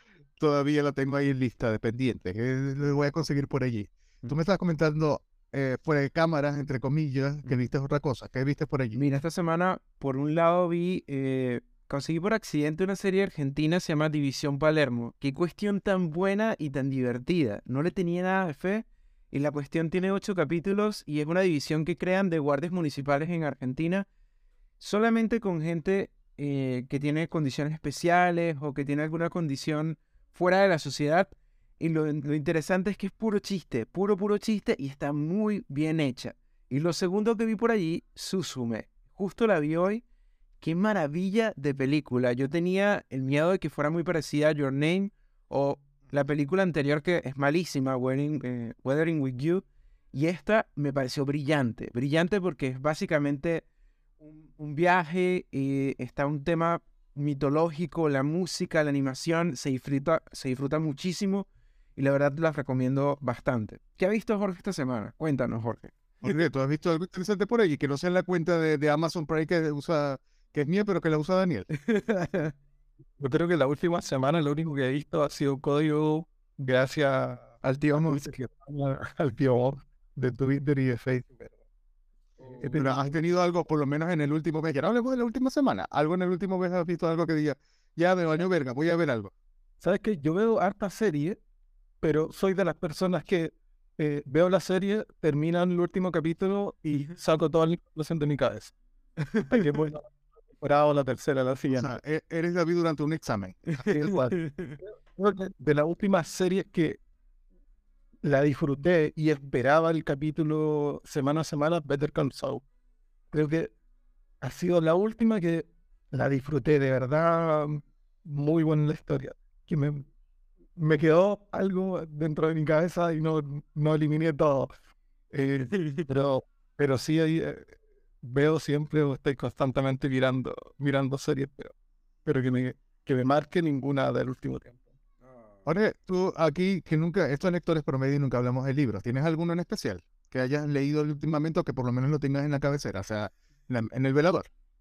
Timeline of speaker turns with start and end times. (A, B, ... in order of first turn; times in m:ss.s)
0:00.4-0:09.0 A
0:08.9-0:24.1 B
0:24.8-0:40.0 B
0:40.6-0:53.6 B
0:54.2-1:06.0 B
1:06.2-1:11.7 A
1:11.7-1:12.5 B
1:13.2-1:21.6 C
1:17.6-1:18.3 B
1:22.4-1:22.8 B
1:22.4-1:23.0 C
1:22.8-1:29.3 A
1:29.8-1:31.4 C
1:32.0-1:38.7 C
1:39.2-1:39.6 B
1:39.4-1:42.0 C
1:41.7-1:44.1 A
1:43.8-1:44.8 B
1:43.9-1:47.0 C
1:48.2-1:52.6 C
1:53.3-1:53.7 C
1:54.4-2:00.0 C
2:00.8-2:04.7 C
2:05.3-2:11.7 C
2:12.2-2:14.8 C
2:15.6-2:24.5 A